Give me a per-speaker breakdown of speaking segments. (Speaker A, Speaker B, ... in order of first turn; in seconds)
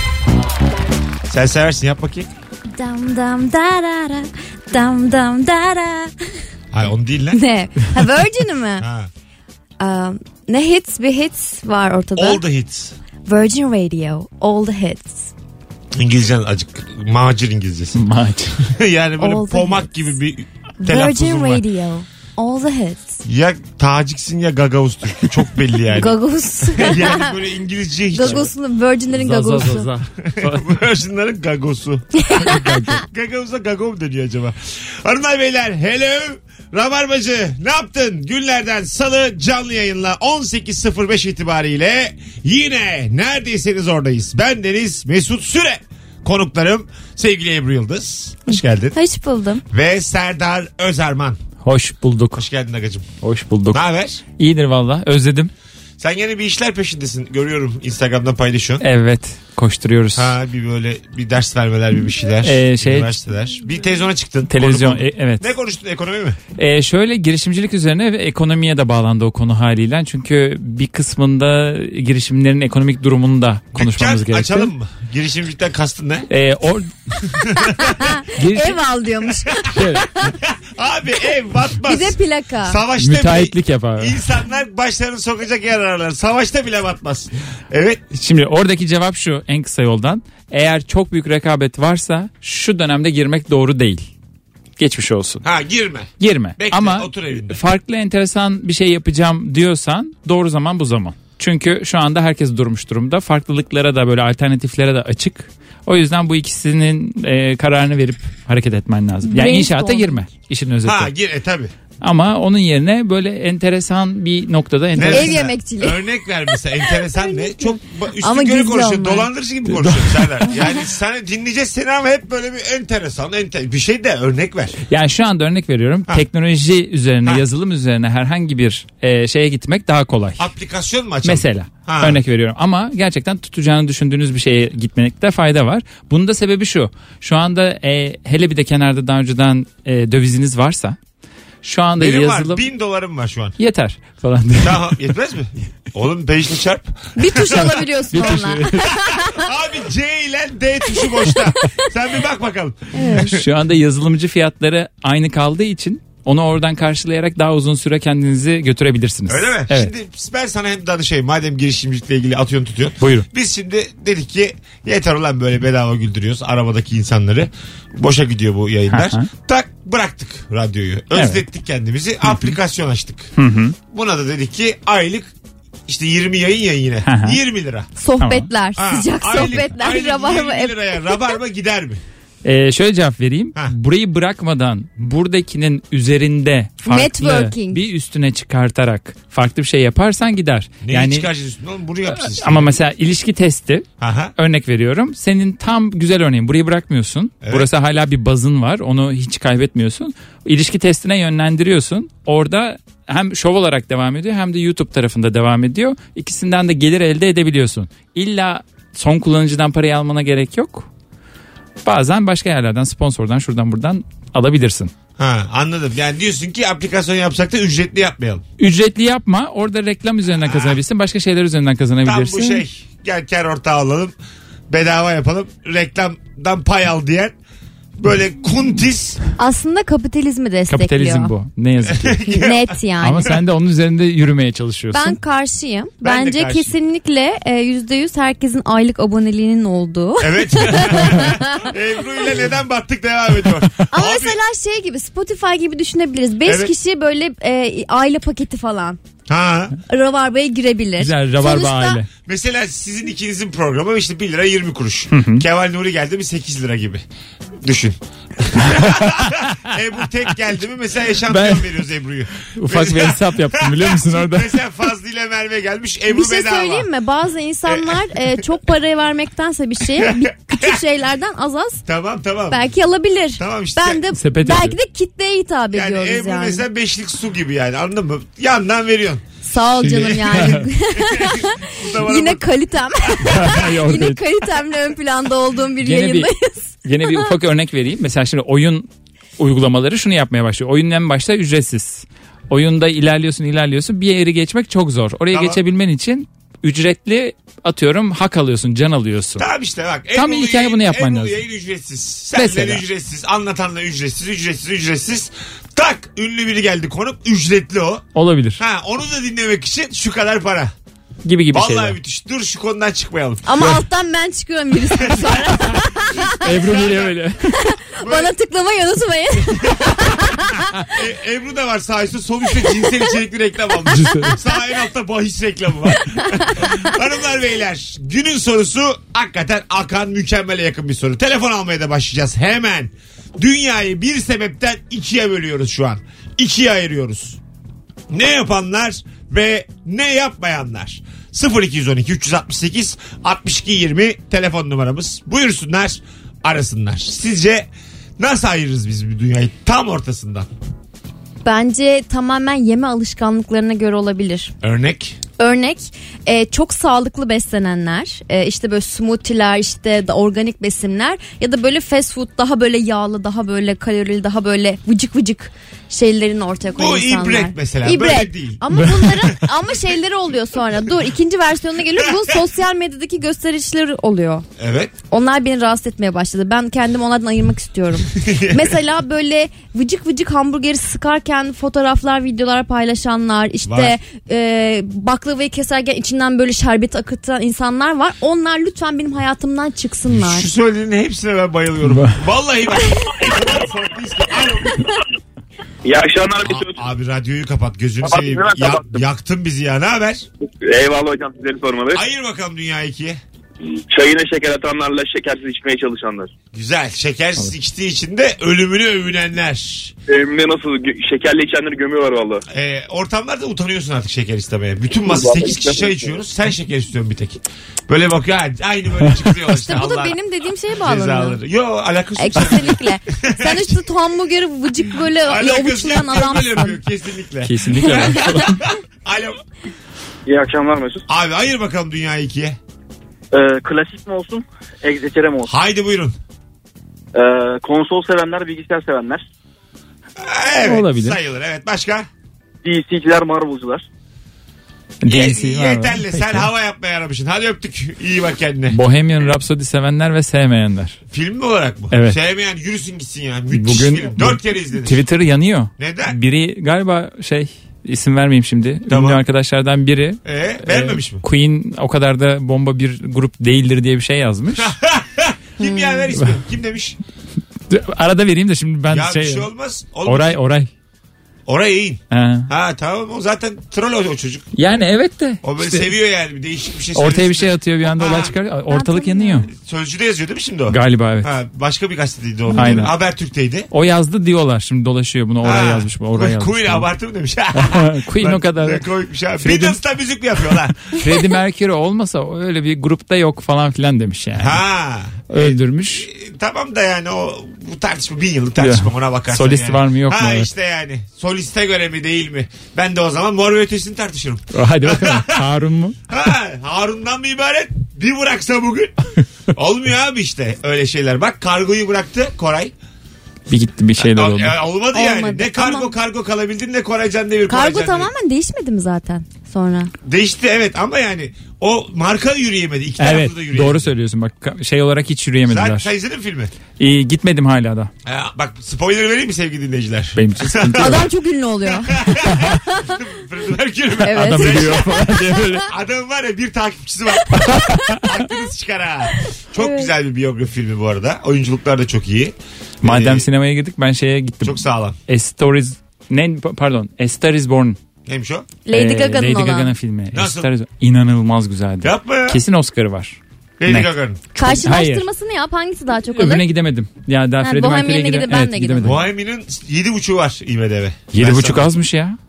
Speaker A: 1.3-2.3, 6.7-7.4, 8.8-9.1, 12.2-12.9, 15.9-18.0, 18.7-21.6, 23.2-26.2, 26.7-28.5, 30.2-49.0, 49.7-51.4, 52.4-53.1, 53.7-54.2, 56.0-58.8, 60.1-66.4, 73.7-76.3, 77.4-78.1, 79.7-88.0, 95.4-97.6, 110.8-111.7, 114.9-124.8, 130.4-132.2, 142.0-143.6, 144.6-147.8, 149.1-153.4, 159.3-173.3, 173.9-175.3, 175.9-177.9, 178.8-182.0, 190.8-192.8, 194.0-194.3, 197.4-197.7, 215.2-218.4, 220.3-220.8, 222.0-224.2, 224.7-227.3, 228.0-229.2, 231.8-232.8, 236.0-236.7, 240.2-244.4, 246.4-246.7, 249.3-249.8, 252.2-257.0, 257.6-266.9, 267.7-268.4, 269.9-270.8, 271.8-272.6, 273.4-274.0, 275.7-279.2, 279.8-282.5, 283.0-283.6, 295.3-295.6, 299.4-308.0, 308.6-310.7, 311.5-313.4, 315.0-315.3, 315.9-317.2, 318.0-318.3, 319.6-320.4, 320.9-337.4, 338.1-350.5, 354.6-355.2, 366.7-368.8, 372.0-372.4, 374.6-374.9, 378.1-378.7, 383.6-383.9, 390.1-394.9, 396.4-400.3, 401.9-403.2, 406.5-409.9, 412.5-420.1, 420.8-423.8, 425.1-429.4, 431.1-432.6, 435.5-436.1, 440.2-442.1, 445.1-448.8, 451.1-455.0, 455.8-456.1, 458.9-459.2, 460.2-461.2, 464.5-467.0, 468.9-470.4, 471.4-474.5, 475.4-478.3, 479.5-483.7, 485.4-490.8, 494.4-505.5, 506.1-508.9, 509.5-512.7, 514.0-518.1, 520.0-523.9, 525.5-526.5, 528.0-531.0, 531.7-543.2, 544.4-545.0, 548.0-548.5, 550.1-550.5, 551.8-552.4, 553.6-554.2, 558.8-561.7
Speaker B: 2.7-6.1, 7.3-8.8, 9.8-12.4, 13.2-15.3, 19.2-19.9, 20.8-23.2, 25.9-27.4, 28.1-29.9, 48.5-49.6, 77.6-80.0, 81.8-82.8, 109.2-110.2, 115.1-116.0, 116.8-119.3, 147.2-149.4, 152.9-153.4, 178.0-181.2, 186.8-187.8, 229.4-231.3, 232.3-233.3, 234.9-241.7, 243.9-249.0, 249.9-252.0, 266.1-271.8, 272.5-276.6, 279.4-287.3, 313.4-316.4, 317.5-320.7, 326.1-326.9, 351.4-354.5, 355.4-374.4, 375.1-390.5, 419.5-421.4, 422.2-426.8, 465.6-466.0, 478.7-479.5, 482.5-482.8, 514.9-515.9, 517.5-519.9, 530.8-532.5, 534.0-534.8, 539.6-539.9, 548.6-549.7, 554.3-556.4, 557.4-559.0
Speaker C: 17.9-18.6, 29.1-30.8, 32.5-32.9, 51.6-52.4, 53.2-53.8, 54.4-55.5, 58.8-60.3, 62.4-63.1, 64.5-65.5, 66.6-74.7, 76.3-77.2, 78.3-78.8, 79.7-80.3, 83.0-84.2, 88.1-94.0, 94.8-95.4, 96.2-111.1, 112.0-115.4, 119.7-120.3, 124.9-130.5, 131.2-140.9, 141.6-142.6, 143.6-144.9, 148.1-148.9, 153.1-159.9, 163.0-163.3, 168.9-169.3, 171.1-171.4, 172.2-172.5, 173.4-173.8, 177.0-177.4, 178.2-178.5, 182.4-191.3, 192.1-210.9, 211.8-214.9, 218.6-222.6, 230.7-232.2, 233.0-235.2, 251.0-252.1, 255.1-255.4, 258.6-259.7, 261.3-261.7, 262.5-264.5, 274.1-274.8, 279.9-280.6, 283.2-284.2, 285.8-286.3, 286.8-288.9, 289.4-299.4, 300.1-301.4, 302.3-302.8, 308.1-308.6, 311.2-312.0, 316.4-317.4, 323.9-324.4, 391.9-392.2, 427.4-428.5, 440.6-441.2, 445.0-446.5, 448.7-451.0, 451.9-452.2, 453.5-464.7, 467.7-469.5, 470.0-470.7, 472.1-472.5, 474.5-475.9, 476.9-479.5, 480.7-481.3, 482.5-482.9, 483.7-486.9, 487.5-488.8, 489.4-489.8, 490.4-494.6, 495.3-496.1, 498.6-500.5, 504.5-506.0, 513.5-514.5, 523.0-525.9, 526.8-527.9, 530.1-531.1, 532.2-532.5, 534.1-535.7, 537.5-538.0, 542.8-547.8, 548.7-555.1, 556.1-559.0, 561.1-562.2
Speaker D: 395.8-396.7, 398.2-398.9, 400.6-402.0, 403.9-406.3, 410.1-412.4, 415.1-416.1
Speaker E: 430.2-431.0, 433.3-435.5, 437.1-439.2, 442.6-443.8